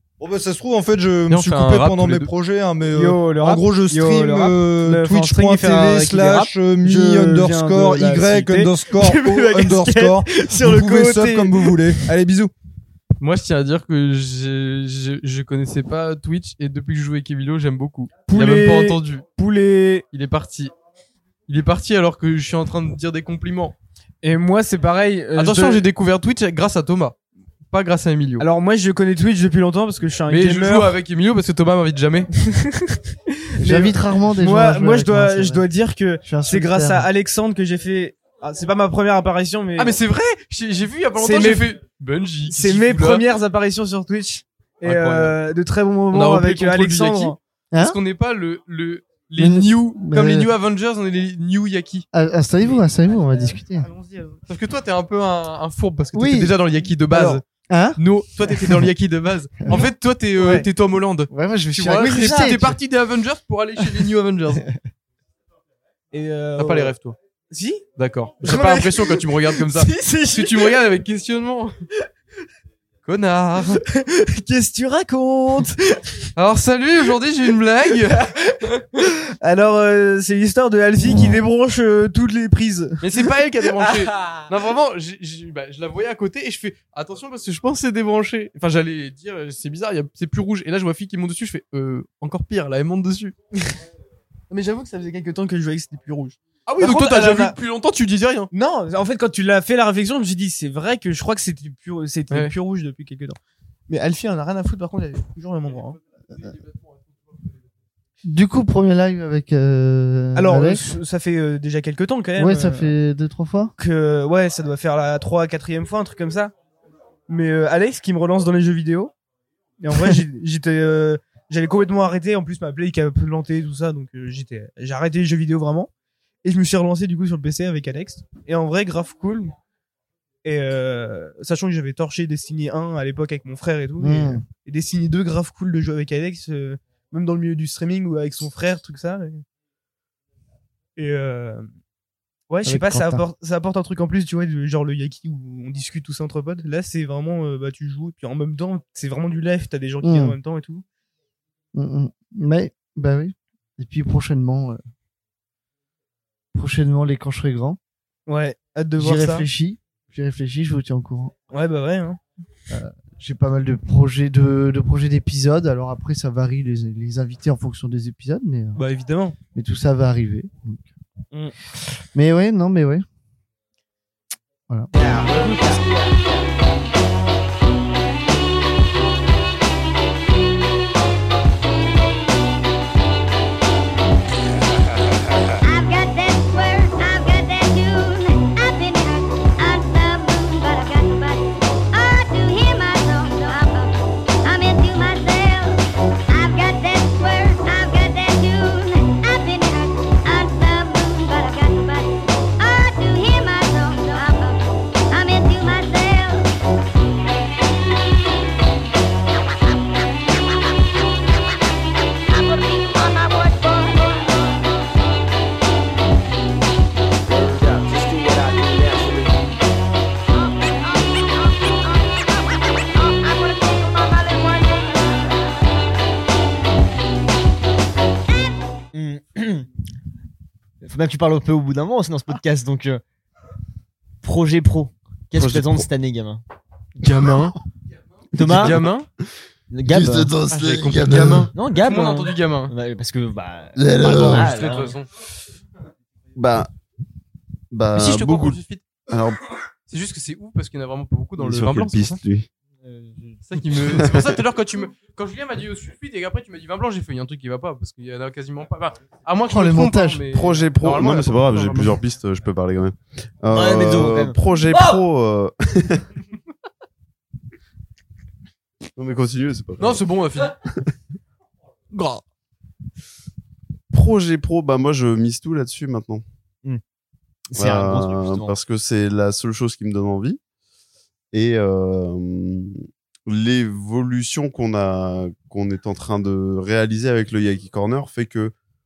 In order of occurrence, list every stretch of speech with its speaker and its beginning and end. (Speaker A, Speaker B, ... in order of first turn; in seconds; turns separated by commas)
Speaker A: 0.2-12.5, Speaker B: 1.3-2.3, Speaker C: 2.9-11.9, Speaker D: 9.0-10.6, Speaker B: 13.2-19.3, Speaker C: 18.2-20.1, Speaker B: 20.1-20.7, Speaker B: 21.5-23.8, Speaker C: 24.2-25.9, Speaker B: 25.3-27.2, Speaker B: 27.7-28.4, Speaker C: 28.4-31.0, Speaker B: 30.3-32.3, Speaker C: 33.6-40.0, Speaker E: 33.6-35.6, Speaker E: 36.2-37.1, Speaker B: 39.8-43.3, Speaker C: 41.1-41.8, Speaker C: 42.5-47.4, Speaker B: 44.8-45.4, Speaker B: 46.1-52.1, Speaker E: 47.7-48.0, Speaker E: 49.4-50.5, Speaker E: 52.1-53.9, Speaker C: 53.1-54.4, Speaker B: 54.5-57.4, Speaker E: 56.1-56.5, Speaker C: 57.1-57.4, Speaker E: 57.7-58.0, Speaker B: 58.0-64.7, Speaker C: 59.7-60.7, Speaker E: 61.3-62.8, Speaker C: 66.1-67.0, Speaker B: 66.6-67.2, Speaker C: 67.5-70.8, Speaker B: 68.0-71.8, Speaker B: 73.0-73.8, Speaker C: 73.8-76.0, Speaker B: 76.4-78.2, Speaker C: 79.4-84.4, Speaker B: 83.0-93.3, Speaker C: 94.5-97.6, Speaker B: 96.7-98.5, Speaker C: 98.5-106.0, Speaker E: 108.2-110.8, Speaker C: 110.3-112.9, Speaker E: 112.4-113.7, Speaker C: 113.8-116.5, Speaker C: 117.3-119.1, Speaker C: 119.8-125.9, Speaker C: 126.4-129.5, Speaker C: 130.4-139.4, Speaker E: 134.0-134.4, Speaker C: 141.0-141.7, Speaker C: 142.5-150.8, Speaker E: 142.7-143.2, Speaker E: 150.0-150.4, Speaker E: 151.8-154.8, Speaker E: 156.5-157.8, Speaker C: 158.3-159.5, Speaker E: 159.0-161.3, Speaker C: 161.5-162.2, Speaker E: 162.7-168.8, Speaker C: 168.8-169.4, Speaker E: 169.6-170.8, Speaker E: 172.1-173.1, Speaker F: 174.9-176.5, Speaker C: 175.0-175.8, Speaker G: 185.6-206.5, Speaker G: 212.3-214.2, Speaker F: 217.2-219.4, Speaker G: 223.2-224.9, Speaker D: 228.9-229.7, Speaker D: 230.8-233.0, Speaker D: 234.2-236.4, Speaker H: 235.4-235.9, Speaker B: 237.0-237.6, Speaker D: 238.3-238.8, Speaker B: 238.4-239.1, Speaker D: 239.7-240.4, Speaker B: 240.4-242.7, Speaker D: 241.5-245.0, Speaker B: 243.9-245.1, Speaker H: 246.3-246.7, Speaker H: 247.7-249.4, Speaker B: 247.9-248.8, Speaker B: 249.9-252.2, Speaker H: 251.4-252.5, Speaker B: 253.4-262.0, Speaker H: 253.9-254.3, Speaker E: 259.5-260.3, Speaker H: 260.3-266.1, Speaker D: 263.5-264.4, Speaker H: 269.0-270.1, Speaker B: 269.8-270.5, Speaker B: 271.9-272.2, Speaker H: 273.9-276.2, Speaker D: 277.5-278.6, Speaker H: 277.6-280.4, Speaker H: 281.3-288.5